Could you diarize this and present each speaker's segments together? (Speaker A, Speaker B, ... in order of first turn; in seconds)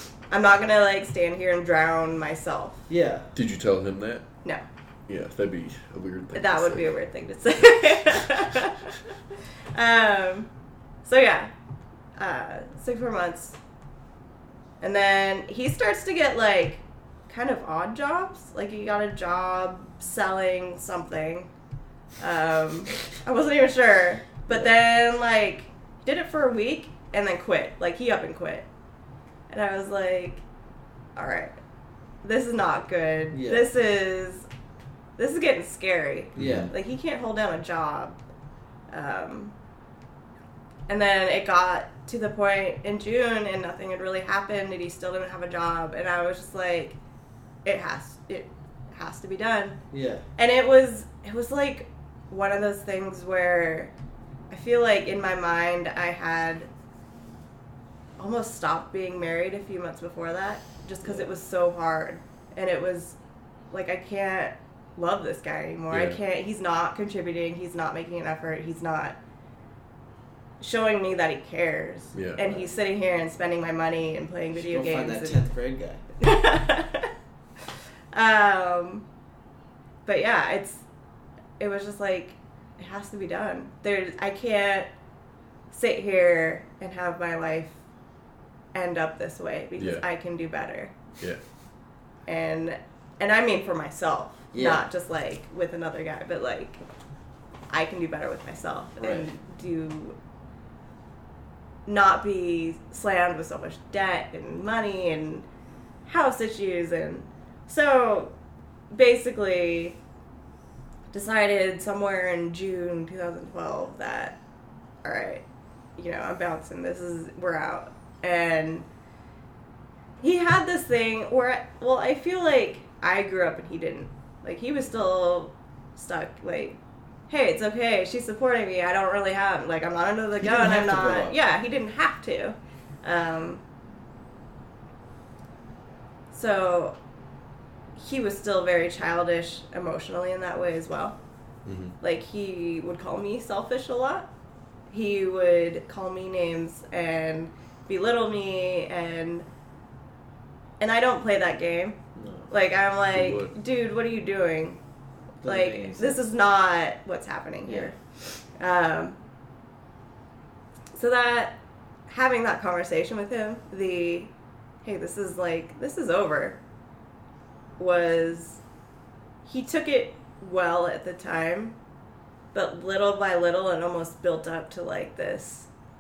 Speaker A: 0.3-2.9, 6.3-8.9, 9.7-10.5, 11.1-11.5, 12.2-13.6, 14.8-21.5, 22.2-28.6, 29.5-30.4, 31.2-31.5, 32.2-34.5, 35.2-38.2, 38.9-39.5, 40.9-47.0, 47.6-49.8, 50.4-53.9, 54.5-56.7, 58.2-63.2, 63.7-69.2, 70.6-75.4, 76.2-77.1, 78.1-79.0, 80.0-80.8, 81.6-84.9, 85.7-87.7, 88.7-91.0, 92.3-96.8, 97.7-100.2, 101.9-105.5, 106.0-108.3, 108.9-110.0, 111.1-114.4, 115.0-115.4, 116.0-118.9, 120.2-126.8, 127.3-133.6, 136.3-136.9, 137.9-141.2, 142.0-144.3, 144.9-149.4, 150.8-152.0, 152.5-154.8, 155.4-157.9, 158.6-159.2, 160.9-161.6, 162.1-164.3, 164.8-166.6, 167.8-168.6, 169.4-171.7, 172.5-175.7
Speaker B: 2.9-3.3, 33.3-33.7, 36.4-36.7, 49.9-50.2, 72.4-72.7, 74.5-76.0, 94.5-94.8, 99.0-99.3, 130.4-131.3, 152.2-152.5, 155.4-156.2, 157.7-157.9
Speaker C: 3.3-4.2, 5.1-7.0, 36.4-36.7, 65.9-66.2, 72.1-72.4, 89.8-90.0, 141.7-141.9, 153.1-153.5